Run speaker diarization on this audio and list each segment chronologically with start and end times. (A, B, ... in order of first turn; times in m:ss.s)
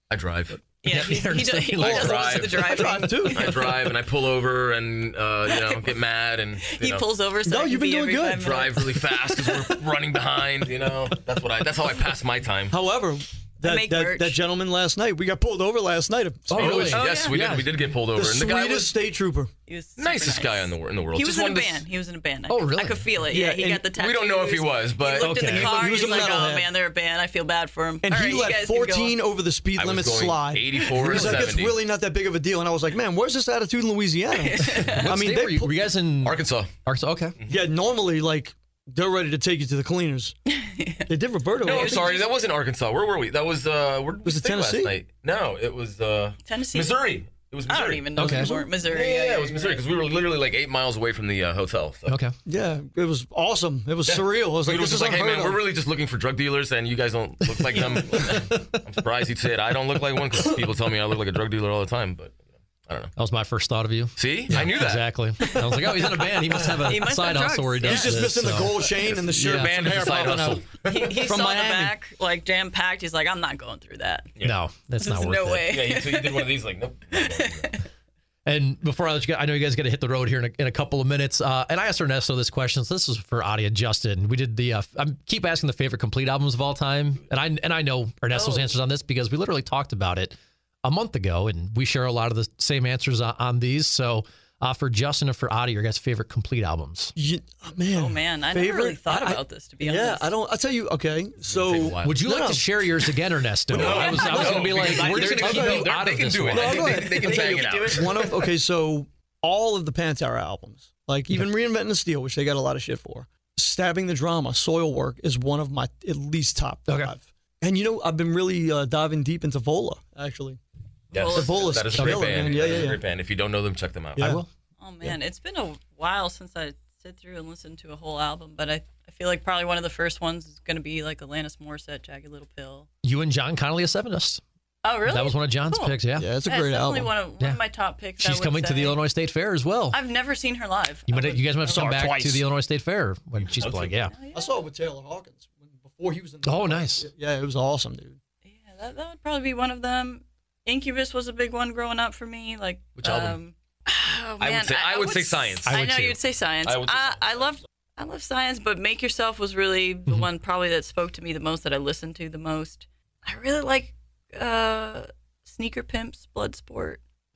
0:00.1-0:00.6 A
0:00.8-0:03.8 B
0:00.9-0:02.4 C
0:01.8-0:03.8 D
0:01.9-0:07.1 A
0:05.4-0:06.0 B
0:06.6-0:09.7 B
0:07.4-0:08.5 D
0:08.4-0:12.8 A
0:12.7-0:17.0 D
0:13.6-0:14.4 B
0:16.5-0:17.7 C
0:16.6-0:18.9 A
0:16.9-0:17.4 B
0:18.1-0:19.5 D
0:19.7-0:29.2 B
0:20.0-0:21.8 A
0:22.5-0:23.1 C
0:23.3-0:23.9 D
0:23.9-0:26.4 A
0:25.2-0:25.7 C
0:25.7-0:26.7 D
0:28.0-0:35.8 D
0:29.8-0:31.8 A
0:34.4-0:35.1 B
0:34.8-0:37.4 C
0:36.2-0:36.7 A
0:37.5-0:40.4 D
0:40.5-0:42.3 B
0:41.1-0:42.1 D
0:41.6-0:48.2 A
0:44.2-0:44.9 D
0:46.4-0:47.1 B
0:47.7-0:49.9 B
0:48.2-0:48.5 C
0:48.2-0:48.7 D
0:48.8-0:52.1 A
0:52.1-0:52.3 C
0:52.4-0:55.6 D
0:54.1-1:03.1 A
0:57.7-0:58.8 C
1:03.2-1:08.8 C
1:04.2-1:05.1 A
1:05.4-1:08.3 B
1:07.8-1:12.0 D
1:08.9-1:11.1 A
1:09.4-1:10.5 C
1:10.8-1:14.4 B
1:14.4-1:15.7 C
1:15.0-1:16.6 B
1:15.7-1:17.8 A
1:17.1-1:17.9 B
1:18.4-1:37.1 C
1:28.3-1:28.7 B
1:37.2-1:42.7 D
1:37.9-1:40.3 B
1:41.5-1:42.2 A
1:42.0-1:47.0 C
1:43.7-1:48.4 A
1:43.7-2:00.6 D
1:43.8-1:44.7 B
1:47.0-1:48.4 B
1:56.9-1:57.1 C
2:01.1-2:02.0 B
2:01.1-2:04.3 A
2:01.3-2:03.0 D
2:02.0-2:02.3 C
2:04.2-2:04.4 D
2:04.2-2:04.5 C
2:04.8-2:12.9 B
2:13.0-2:14.4 C
2:14.8-2:19.0 B
2:15.0-2:16.3 C
2:16.2-2:17.1 D
2:18.2-2:20.0 C
2:19.9-2:21.4 B
2:21.1-2:24.1 C
2:21.6-2:22.4 D
2:23.4-2:24.0 A
2:24.0-2:24.6 B
2:24.3-2:28.2 D
2:26.4-2:27.1 C
2:28.4-2:47.0 B
2:33.0-2:33.4 A
2:34.4-2:35.8 A
2:35.7-2:36.2 C
2:36.6-2:37.5 A